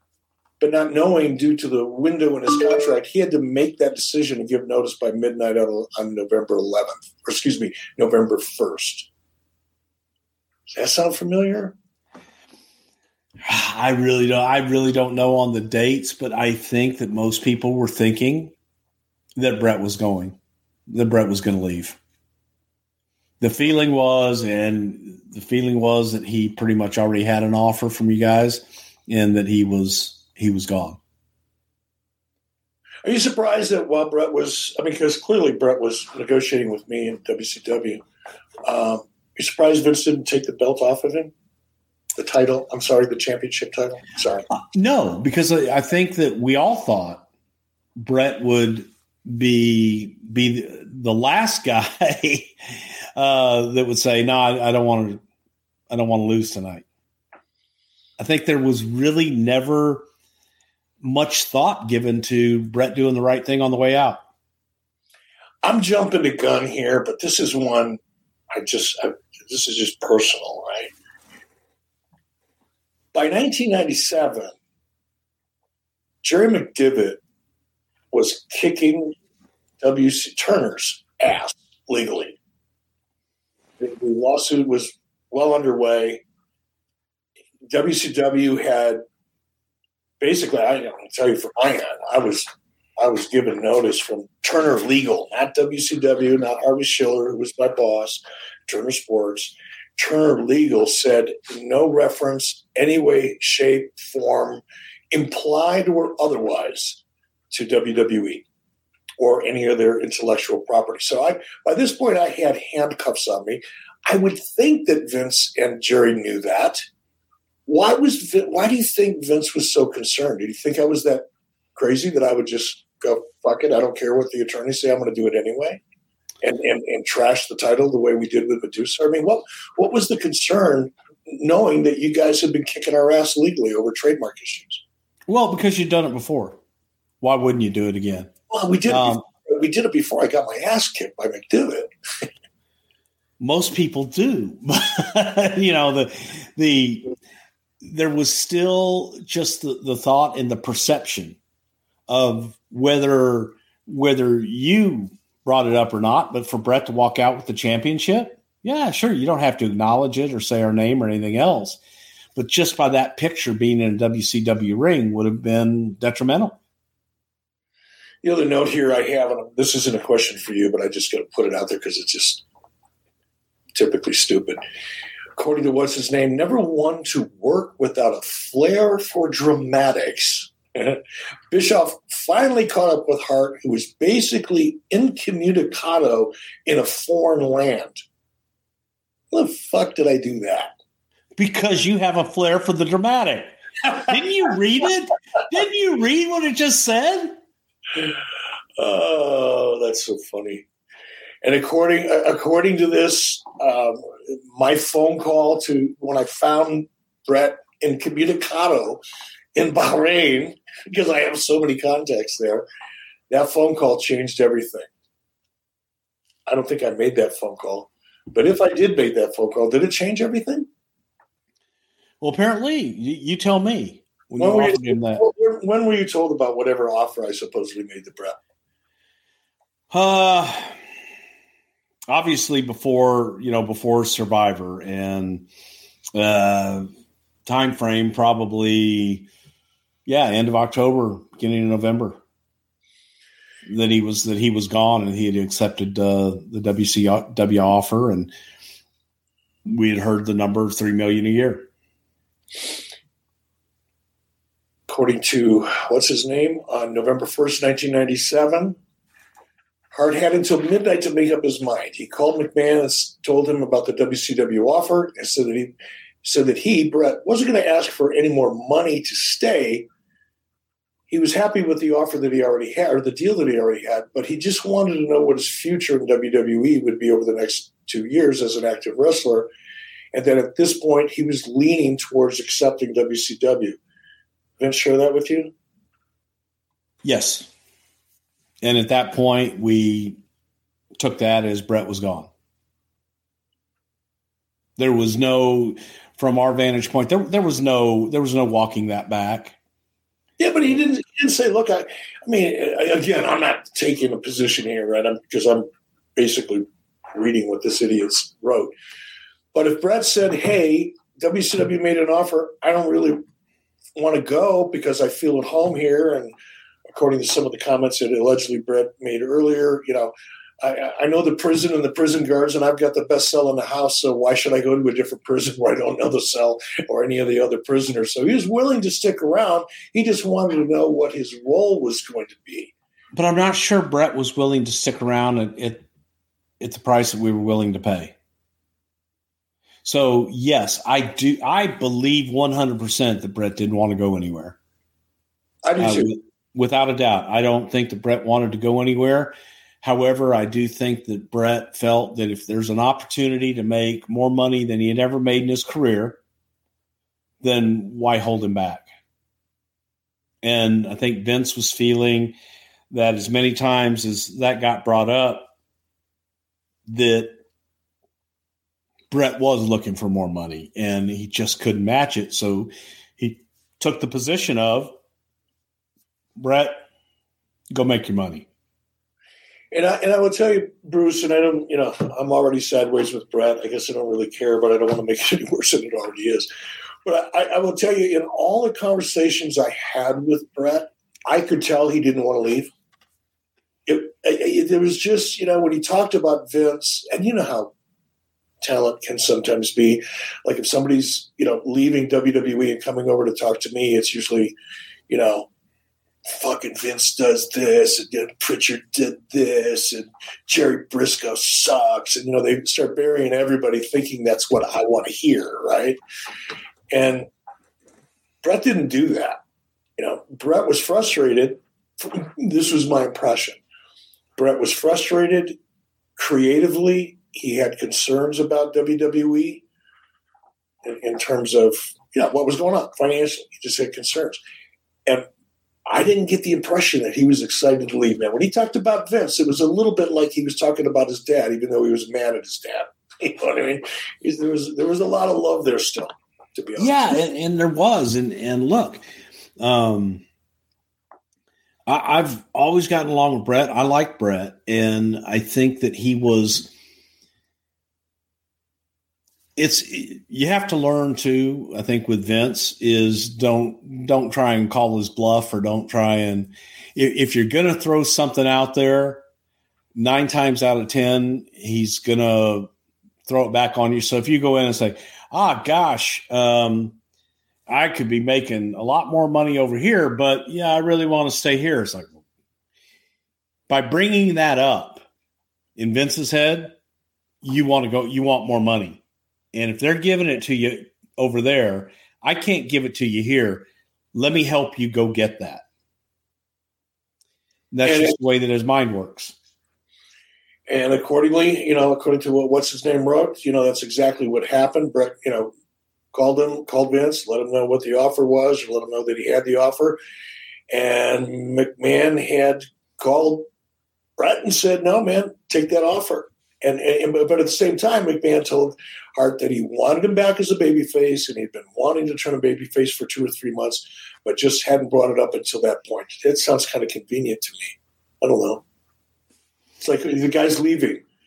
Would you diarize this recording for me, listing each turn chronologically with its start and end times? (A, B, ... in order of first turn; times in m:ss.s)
0:00.6-0:09.1 A
0:10.7-0:11.8 A
0:13.4-0:18.5 B
0:19.4-0:20.4 B
0:20.9-0:22.0 B
0:23.4-0:31.0 B
0:33.0-0:38.0 A
0:38.6-0:41.3 A
0:42.2-0:44.4 A
0:44.5-0:47.2 B
0:48.0-0:52.6 B
0:53.2-0:55.2 B
0:55.9-0:56.8 B
0:58.2-1:00.1 B
1:01.0-1:04.2 B
1:05.6-1:08.0 A
1:08.5-1:10.9 A
1:13.1-1:14.5 A
1:16.2-1:17.2 A
1:18.1-1:19.1 A
1:19.8-1:22.4 A
1:23.8-1:26.2 A
1:27.7-1:29.0 A
1:30.2-1:48.4 A
1:49.2-1:56.8 A
1:57.6-2:05.8 A
2:06.4-2:14.8 A
2:15.3-2:16.6 B
2:17.2-2:18.3 B
2:18.5-2:22.3 A
2:18.9-2:19.2 B
2:23.4-2:27.1 B
2:27.8-2:31.4 B
2:32.1-2:41.8 B
2:42.4-2:46.6 B
2:48.2-2:52.4 A
2:53.7-2:54.6 A
2:55.4-3:01.0 A
3:01.5-3:08.0 A
3:09.3-3:10.7 A
3:11.4-3:17.4 B
3:18.8-3:20.6 A
3:21.4-3:29.0 A
3:29.6-3:32.6 A
3:33.3-3:34.9 A
3:36.5-3:40.7 A
3:42.2-3:45.2 B
3:44.4-3:48.4 A
3:49.9-3:50.8 B
3:52.1-3:55.5 B
3:56.1-3:56.9 B
3:57.4-3:59.3 B
4:00.0-4:02.2 B
4:03.6-4:08.3 B
4:09.6-4:11.7 B
4:14.9-4:18.8 A
4:19.9-4:25.7 A
4:26.2-4:29.9 A
4:31.1-4:39.5 A
4:40.1-4:43.8 A
4:44.6-4:45.5 A
4:47.0-4:47.5 B
4:48.6-4:50.2 B
4:51.0-4:52.3 B
4:54.8-4:59.6 B
5:00.4-5:08.7 A
5:09.5-5:13.2 A
5:14.0-5:16.3 A
5:16.9-5:32.7 A
5:33.1-5:35.8 B
5:36.6-5:38.1 B
5:39.8-5:44.6 B
5:45.6-5:46.1 A
5:45.8-5:56.2 B
5:57.4-5:58.9 B
6:00.4-6:02.4 B
6:02.9-6:05.5 B
6:06.9-6:07.4 B
6:09.1-6:15.0 B
6:16.4-6:16.8 B
6:17.7-6:18.5 B
6:19.7-6:26.5 A
6:27.0-6:32.7 A
6:33.9-6:37.7 A
6:38.6-6:44.6 A
6:45.1-6:45.5 A
6:46.3-6:56.0 A
6:56.9-6:57.3 A
6:58.4-6:59.4 A
7:00.0-7:03.6 A
7:04.4-7:05.6 A
7:06.2-7:09.6 A
7:10.8-7:14.4 A
7:15.9-7:27.1 A
7:26.8-7:29.0 B
7:29.6-7:30.2 B
7:31.9-7:36.7 B
7:39.6-7:49.2 B
7:50.0-7:52.7 B
7:53.3-7:57.0 B
7:57.7-8:02.2 B
8:03.7-8:05.0 B
8:05.8-8:06.7 B
8:07.4-8:09.0 B
8:09.5-8:15.6 B
8:17.7-8:19.3 B
8:17.8-8:18.1 A
8:20.7-8:25.5 A
8:26.1-8:30.0 A
8:30.7-8:33.5 A
8:34.2-8:48.6 A
8:49.8-8:51.0 A